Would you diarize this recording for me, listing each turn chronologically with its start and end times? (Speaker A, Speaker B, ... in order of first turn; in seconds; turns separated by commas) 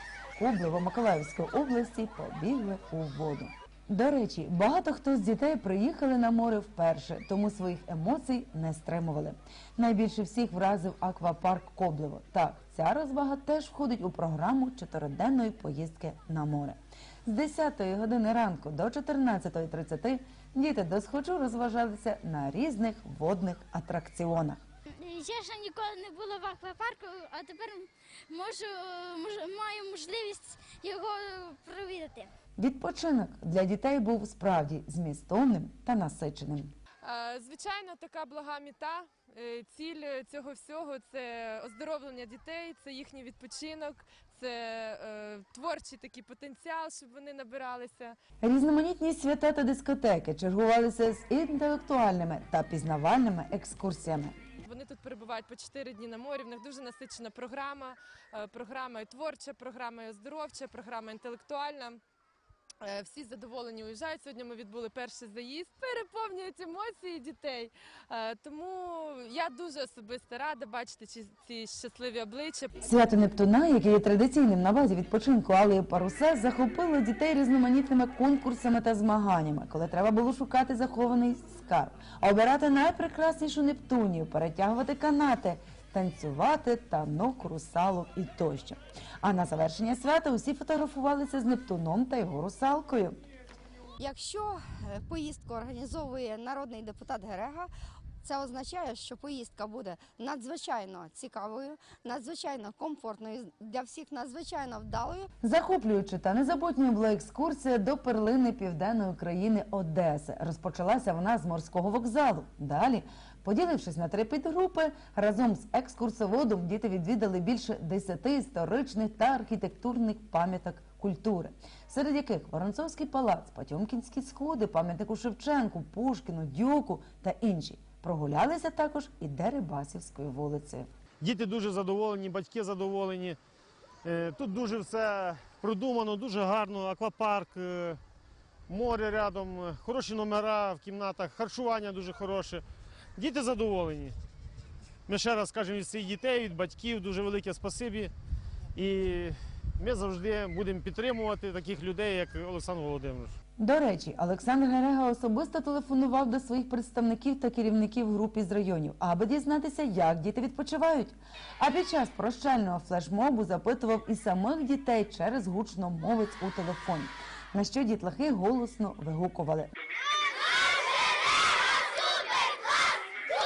Speaker A: 0.4-24.6, Speaker B: 25.0-32.3, Speaker A: 32.6-36.7, Speaker C: 37.0-48.1, Speaker A: 48.4-54.4, Speaker C: 54.6-62.0, Speaker C: 62.8-72.7, Speaker A: 72.8-93.2, Speaker D: 94.0-97.7, Speaker D: 98.2-105.3, Speaker A: 105.4-130.9, Speaker E: 131.2-133.4, Speaker E: 134.1-138.0, Speaker E: 138.7-142.6, Speaker E: 143.2-144.2, Speaker E: 145.1-148.1, Speaker E: 148.8-153.3, Speaker A: 153.6-169.7